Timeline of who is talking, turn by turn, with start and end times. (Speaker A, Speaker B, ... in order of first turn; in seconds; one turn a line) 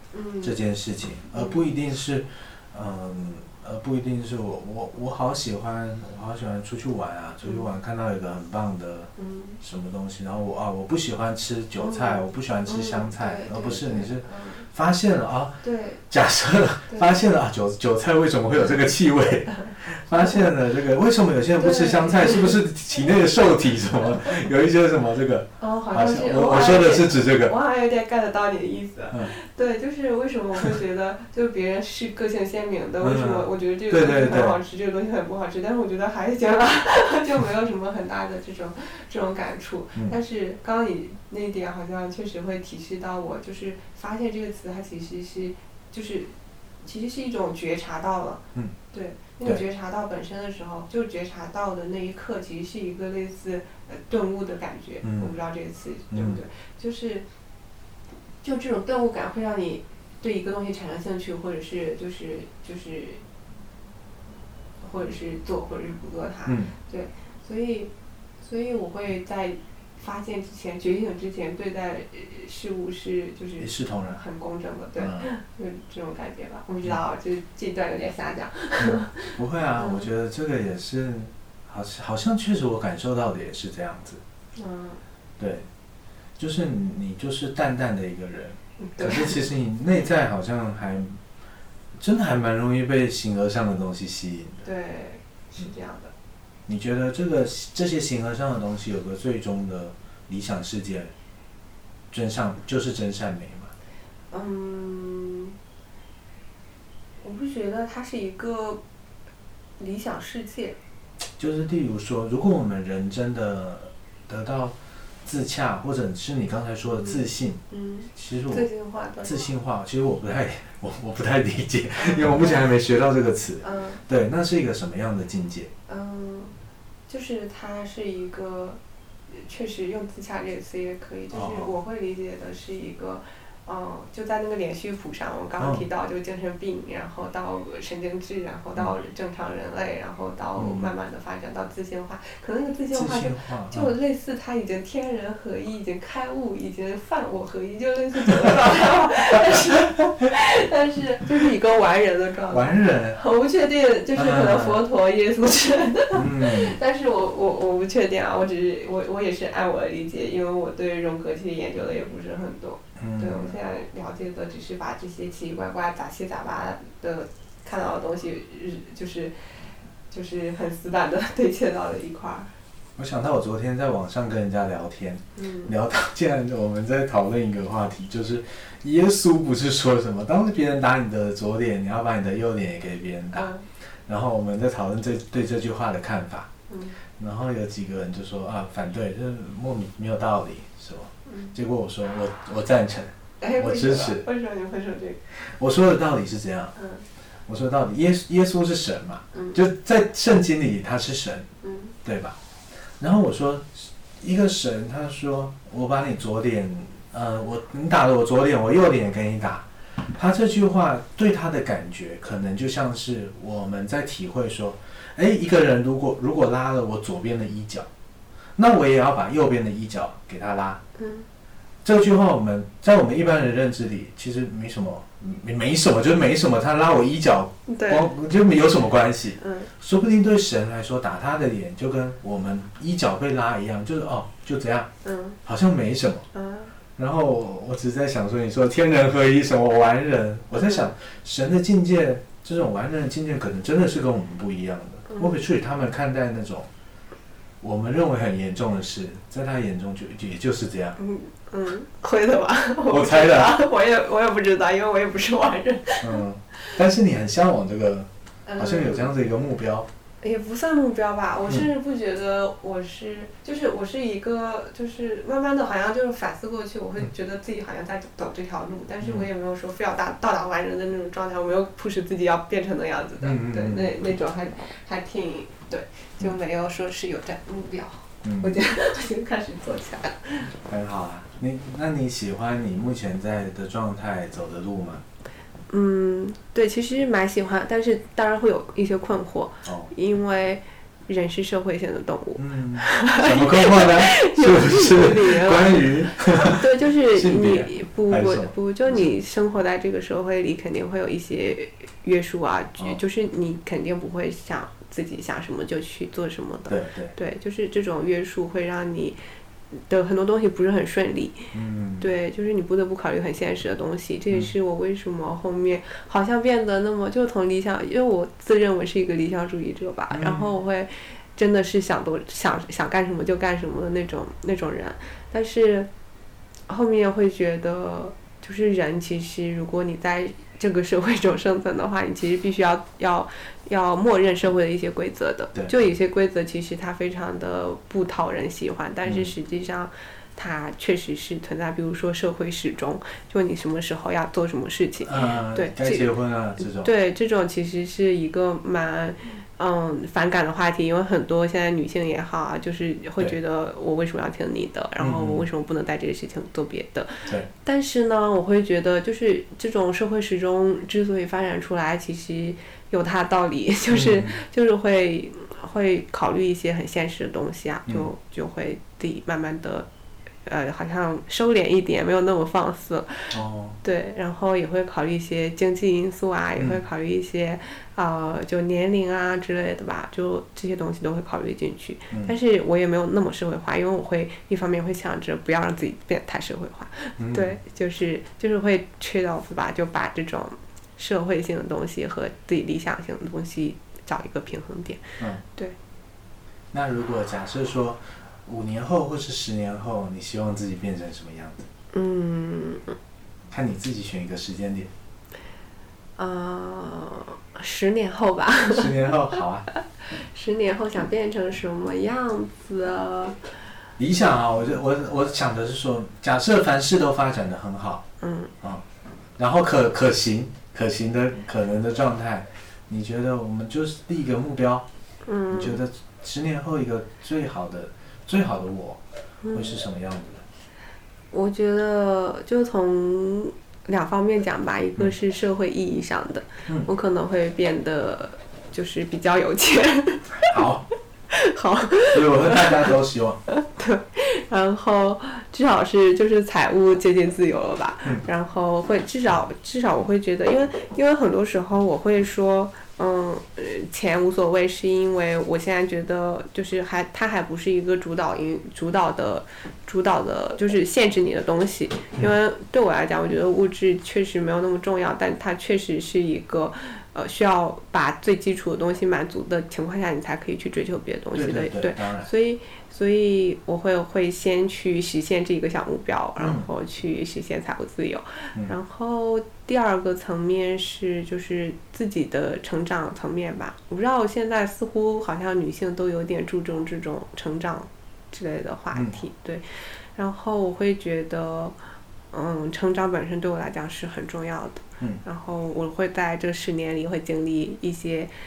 Speaker A: 0.1-0.6
Speaker B: 0.4-27.5
Speaker A: 1.3-1.6
Speaker A: 9.2-9.6
Speaker A: 11.8-14.7
Speaker A: 15.6-16.0
Speaker A: 16.9-17.2
Speaker A: 21.6-22.6
Speaker A: 25.6-57.2
Speaker B: 33.0-34.6
Speaker B: 55.0-55.3
Speaker B: 56.1-56.4
Speaker A: 58.4-63.2
Speaker A: 64.8-80.1
Speaker B: 66.5-66.7
Speaker B: 73.6-74.2
Speaker B: 75.0-75.3
Speaker B: 78.8-84.2
Speaker A: 84.5-85.0
Speaker B: 85.4-85.7
Speaker B: 86.4-91.2
Speaker A: 88.8-89.4
Speaker B: 92.0-94.6
Speaker A: 94.6-96.1
Speaker B: 96.7-101.1
Speaker B: 102.1-103.7
Speaker A: 104.3-105.5
Speaker A: 107.2-108.8
Speaker A: 109.8-110.8
Speaker B: 111.4-117.6
Speaker A: 116.9-119.5
Speaker B: 118.1-118.7
Speaker B: 119.2-125.7
Speaker A: 122.0-122.7
Speaker A: 123.6-124.0
Speaker A: 125.9-126.5
Speaker A: 127.1-172.5
Speaker B: 131.3-131.7
Speaker B: 135.6-135.8
Speaker B: 140.6-140.9
Speaker B: 142.9-143.9
Speaker B: 152.5-153.2
Speaker B: 154.1-154.8
Speaker B: 156.1-156.8
Speaker B: 163.0-163.6
Speaker B: 173.0-186.5
Speaker A: 175.3-175.7
Speaker A: 183.3-183.7
Speaker A: 186.7-187.0
Speaker B: 187.2-194.3
Speaker A: 191.2-191.5
Speaker A: 193.4-195.2
Speaker B: 195.3-196.7
Speaker A: 196.8-197.1
Speaker B: 197.5-201.5
Speaker A: 199.3-199.6
Speaker A: 201.6-201.9
Speaker B: 202.0-202.3
Speaker B: 203.0-217.9
Speaker B: 218.6-220.8
Speaker A: 221.0-221.3
Speaker B: 221.8-234.9
Speaker A: 227.7-228.1
Speaker A: 229.4-229.7
Speaker A: 235.0-235.4
Speaker B: 235.4-236.3
Speaker A: 236.3-236.7
Speaker B: 237.0-246.7
Speaker A: 240.5-240.9
Speaker A: 245.1-245.4
Speaker B: 247.6-251.0
Speaker A: 251.0-256.2
Speaker B: 252.9-253.6
Speaker B: 256.0-259.9
Speaker A: 258.4-259.1
Speaker A: 260.2-280.5
Speaker B: 269.0-269.3
Speaker B: 273.2-273.9
Speaker B: 278.2-278.5
Speaker B: 280.6-285.0
Speaker A: 285.7-309.2
Speaker B: 289.6-289.9
Speaker B: 292.4-298.5
Speaker B: 306.7-307.1
Speaker A: 309.7-325.9
Speaker B: 311.5-312.1
Speaker B: 320.1-320.5
Speaker A: 326.7-369.9
Speaker B: 339.0-339.3
Speaker B: 345.0-346.9
Speaker B: 355.0-355.4
Speaker B: 363.9-364.4
Speaker A: 370.4-395.8
Speaker B: 373.3-373.8
Speaker B: 382.1-382.4
Speaker B: 387.2-387.6
Speaker B: 396.7-401.6
Speaker A: 401.9-402.9
Speaker B: 403.5-404.9
Speaker A: 406.2-408.9
Speaker B: 408.7-409.7
Speaker A: 410.0-413.4
Speaker B: 414.0-418.0
Speaker A: 418.2-418.5
Speaker B: 419.4-424.9
Speaker A: 425.2-425.8
Speaker B: 425.5-429.0
Speaker A: 429.4-429.8
Speaker B: 429.5-430.4
Speaker A: 431.3-440.2
Speaker B: 440.4-440.9
Speaker A: 441.3-442.9
Speaker B: 442.1-443.4
Speaker A: 443.5-491.8
Speaker B: 471.3-472.3
Speaker B: 476.4-476.6
Speaker A: 492.3-498.3